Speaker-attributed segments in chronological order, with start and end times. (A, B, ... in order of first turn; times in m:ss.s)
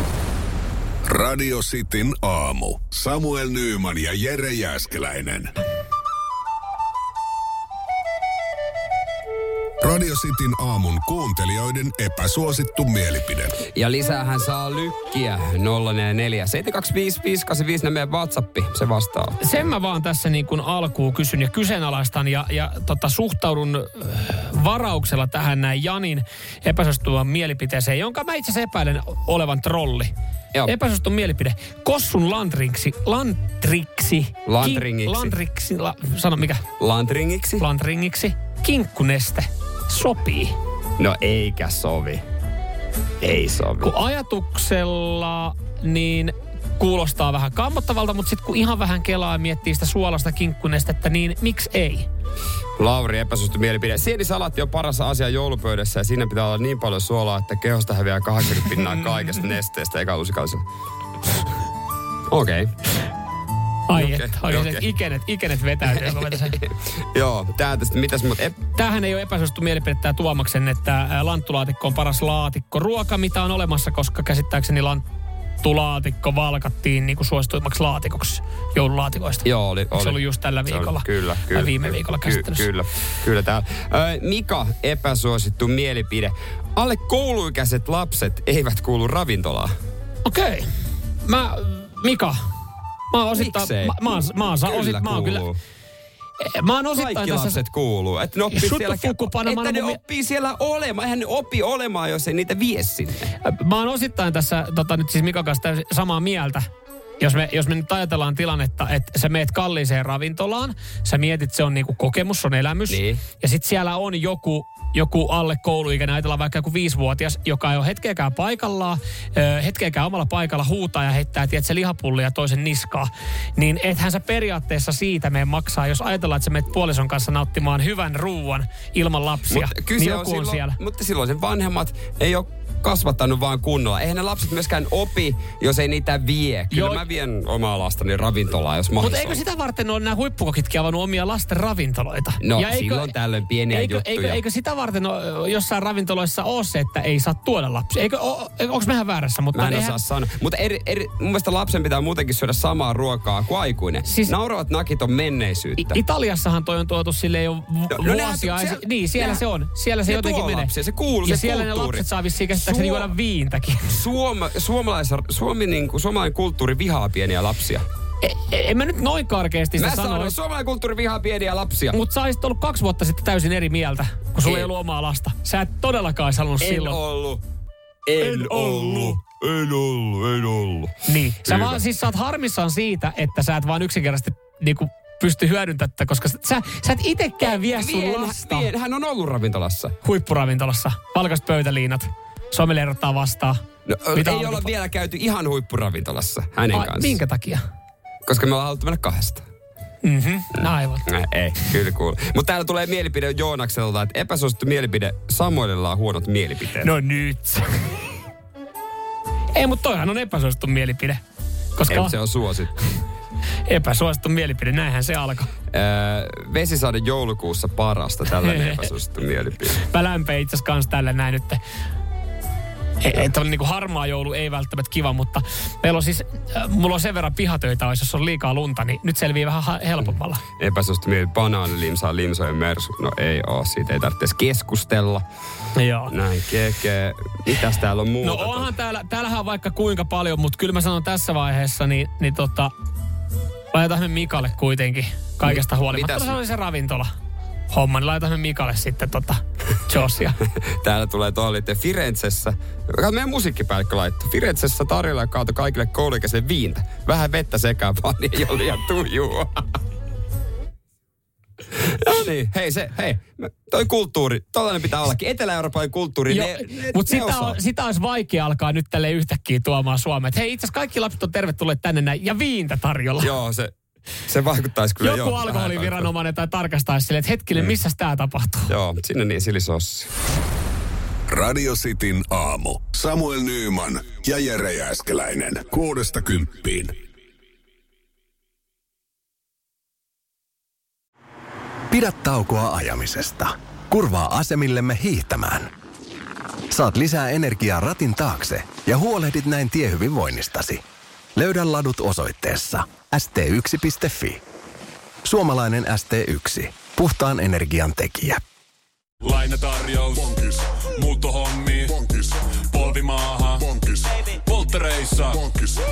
0:01.0-0:05.5 A
0:09.8-0:13.5 A
0:13.6-0:19.4 B
0:19.4-0:30.1 C
0:30.6-0:36.6 C
0:34.4-0:35.3 B
0:36.8-0:37.6 B
0:37.6-0:40.5 C
0:41.0-0:42.2 B
0:43.2-0:43.9 B
0:43.8-0:52.0 C
0:52.8-1:00.6 B
1:02.3-1:02.7 B
1:03.9-1:06.6 C
1:03.9-1:04.8 B
1:06.1-1:08.6 B
1:08.8-1:15.0 C
1:15.6-1:22.7 C
1:19.4-1:29.7 B
1:30.2-1:30.7 C
1:31.2-1:32.4 C
1:33.1-1:35.5 C
1:33.3-1:35.6 B
1:36.4-1:37.6 C
1:36.9-1:43.3 B
1:38.5-1:40.0 C
1:43.4-1:46.6 C
1:47.2-2:10.8 C
1:52.9-1:53.2 B
2:09.5-2:19.4 B
2:16.7-2:17.0 C
2:19.0-2:23.1 C
2:22.4-2:24.4 B
2:23.7-2:30.0 C
2:29.5-2:36.0 B
2:34.0-2:34.3 C
2:35.8-2:40.7 C
2:37.9-2:39.4 B
2:40.0-2:43.1 B
2:41.2-2:43.9 C
2:43.9-2:47.8 B
2:48.2-2:50.3 C
2:49.8-2:52.0 B
2:51.9-2:57.0 C
2:54.4-2:54.7 B
2:56.6-2:57.4 B
2:58.0-3:00.9 B
2:58.2-2:59.2 C
3:01.0-3:08.7 C
3:01.5-3:01.8 B
3:07.4-3:09.9 B
3:10.0-3:13.6 C
3:13.8-3:17.2 B
3:14.1-3:14.7 C
3:16.7-3:17.6 C
3:18.2-3:19.4 B
3:20.0-3:21.0 C
3:20.6-3:26.9 B
3:26.8-3:27.9 C
3:29.5-3:31.2 C
3:31.8-3:32.1 C
3:31.9-3:32.7 B
3:33.6-3:35.5 C
3:35.7-3:39.8 B
3:38.4-3:38.8 C
3:39.8-3:41.6 C
3:43.0-3:50.4 C
3:50.6-3:55.2 B
3:55.7-3:56.1 C
3:56.1-3:58.7 B
3:58.2-4:02.7 C
4:03.7-4:07.1 C
4:05.4-4:06.4 B
4:07.7-4:10.4 C
4:10.6-4:19.6 B
4:21.7-4:27.6 B
4:26.3-4:33.3 C
4:33.2-4:33.7 B
4:34.3-4:36.1 B
4:35.0-4:38.7 C
4:38.7-4:40.1 B
4:41.3-4:46.9 A
4:51.9-4:55.7 D
4:56.7-5:00.8 D
5:01.4-5:04.4 D
5:05.2-5:08.4 D
5:09.2-5:15.6 E